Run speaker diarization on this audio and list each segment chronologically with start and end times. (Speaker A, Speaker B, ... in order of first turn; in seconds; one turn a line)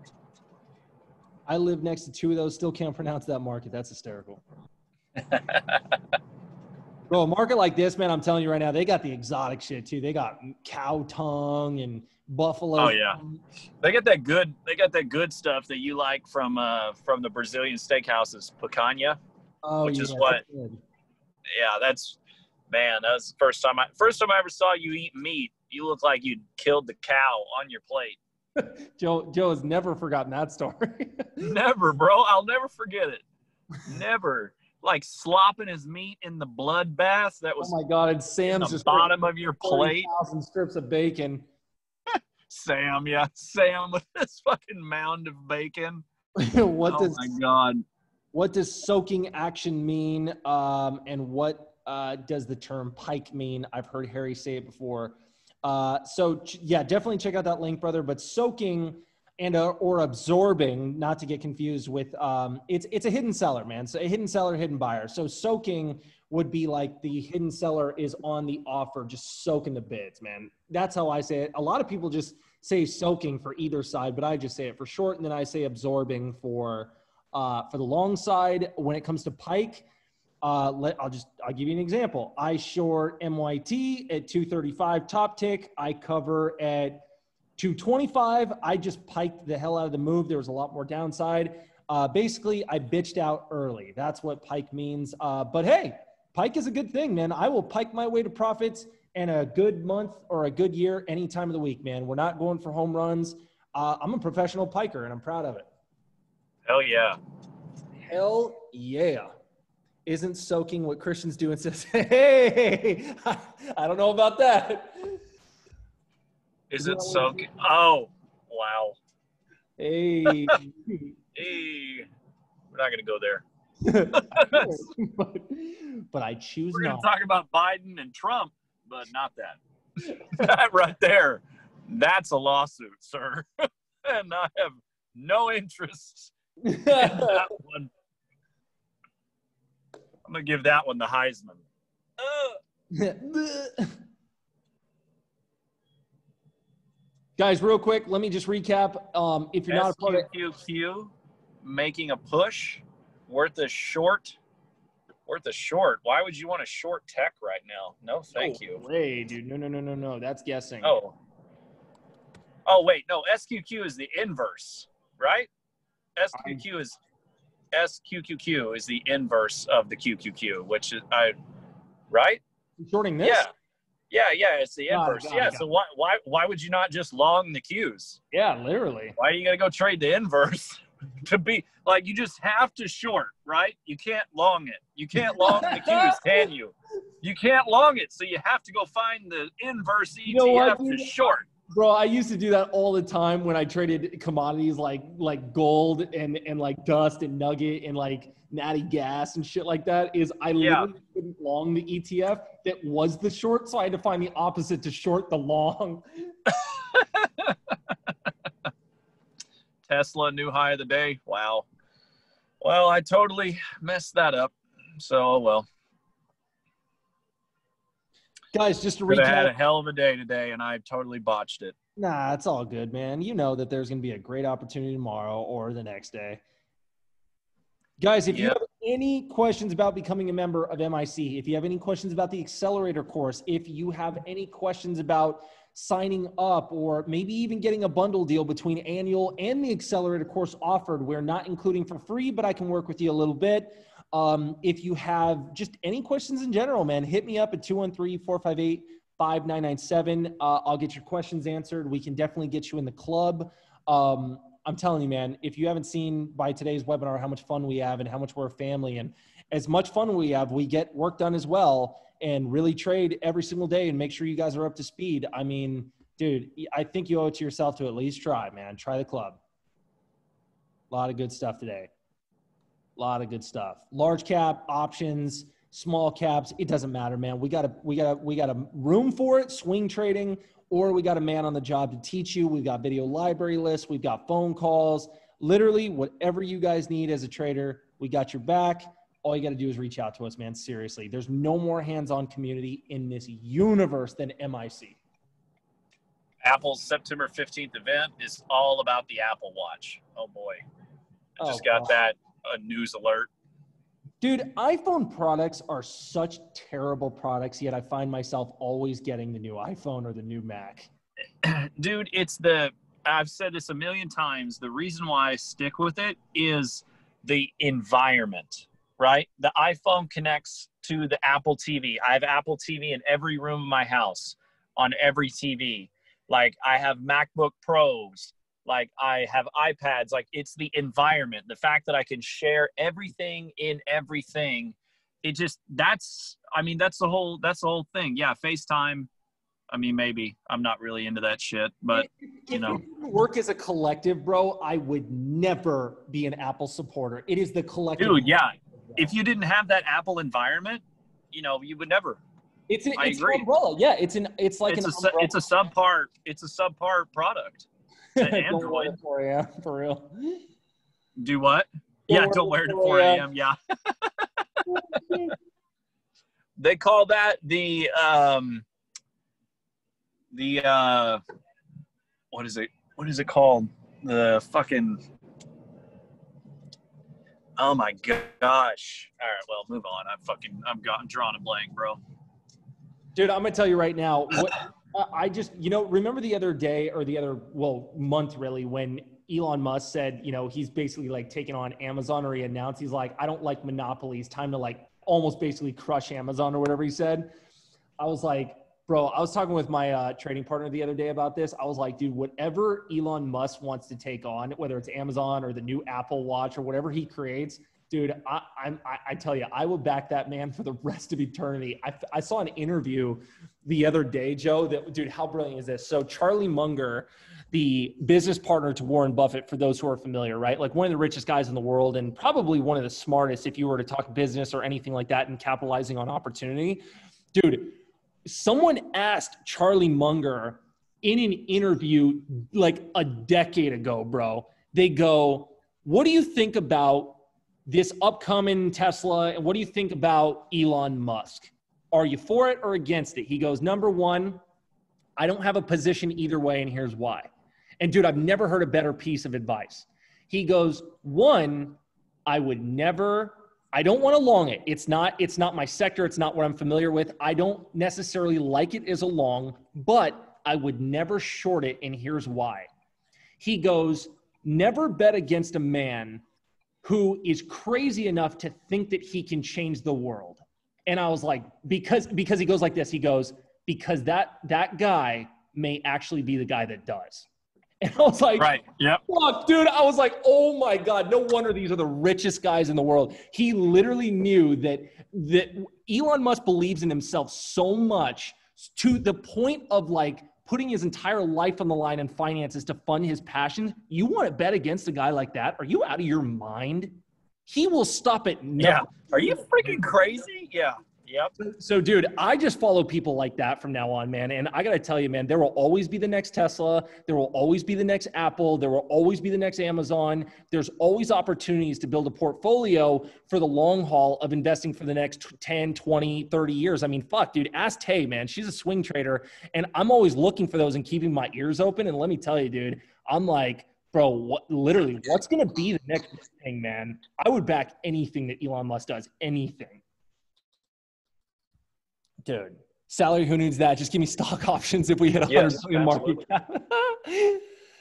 Speaker A: 1.5-4.4
Speaker B: 5.2-5.8
Speaker A: 7.1-13.4
Speaker B: 12.8-13.2
Speaker B: 13.8-19.2
Speaker A: 19.6-20.8
Speaker B: 19.8-20.4
Speaker B: 21.5-22.2
Speaker B: 22.7-28.2
Speaker A: 28.6-31.5
Speaker B: 31.4-33.2
Speaker B: 33.8-37.7
Speaker A: 37.6-41.5
Speaker B: 38.5-40.1
Speaker B: 42.5-46.0
Speaker A: 46.4-47.2
Speaker B: 46.9-47.8
Speaker A: 48.3-79.8
Speaker A: 80.4-87.0
Speaker A: 87.6-105.7
Speaker B: 106.7-107.2
Speaker A: 108.1-109.3
Speaker A: 110.0-115.2
Speaker B: 116.7-119.0
Speaker A: 116.8-117.5
Speaker A: 119.8-121.1
Speaker B: 120.3-120.6
Speaker B: 121.3-122.1
Speaker B: 122.7-123.4
Speaker A: 123.8-127.1
Speaker B: 124.2-124.8
Speaker B: 126.7-129.6
Speaker B: 130.1-136.3
Speaker A: 136.6-137.4
Speaker B: 136.9-137.9
Speaker B: 140.2-141.6
Speaker B: 142.2-142.6
Speaker A: 142.9-143.9
Speaker A: 147.4-150.3
Speaker B: 149.7-154.4
Speaker B: 155.3-158.8
Speaker A: 158.3-160.9
Speaker B: 160.8-161.1
Speaker B: 162.7-165.5
Speaker B: 166.2-167.0
Speaker A: 166.3-166.6
Speaker B: 167.7-171.3
Speaker B: 172.1-172.4
Speaker A: 172.8-173.4
Speaker B: 173.2-173.5
Speaker B: 174.1-178.2
Speaker A: 174.9-175.6
Speaker A: 178.3-179.1
Speaker B: 179.2-191.4
Speaker A: 185.2-186.4
Speaker A: 190.2-191.2
Speaker A: 191.7-206.0
Speaker B: 200.6-200.9
Speaker B: 206.5-207.6
Speaker B: 209.8-211.6
Speaker B: 212.6-215.7
Speaker A: 218.5-219.5
Speaker B: 219.1-221.8
Speaker A: 221.9-226.4
Speaker A: 228.0-269.4
Speaker B: 228.3-228.6
Speaker A: 270.9-271.9
Speaker A: 273.0-295.0
Speaker B: 296.4-300.6
Speaker B: 301.4-303.3
Speaker A: 301.4-302.0
Speaker A: 304.2-310.9
Speaker B: 311.4-339.1
Speaker B: 339.7-342.8
Speaker A: 341.9-348.4
Speaker B: 348.0-352.2
Speaker A: 352.7-355.4
Speaker B: 353.0-353.4
Speaker B: 354.7-357.7
Speaker A: 358.1-360.4
Speaker B: 358.2-358.9
Speaker B: 361.2-364.3
Speaker A: 362.1-363.3
Speaker A: 364.6-365.4
Speaker B: 366.6-368.6
Speaker B: 370.3-371.2
Speaker B: 372.3-375.0
Speaker B: 377.6-382.0
Speaker A: 383.1-397.3
Speaker A: 398.0-444.4
Speaker A: 445.2-462.7
Speaker A: 463.4-466.2
Speaker A: 466.8-477.3
Speaker A: 477.8-496.9
Speaker B: 478.4-479.0
Speaker A: 497.5-499.7
Speaker B: 498.6-501.3
Speaker A: 501.4-529.8
Speaker A: 532.2-537.4
Speaker B: 535.3-536.2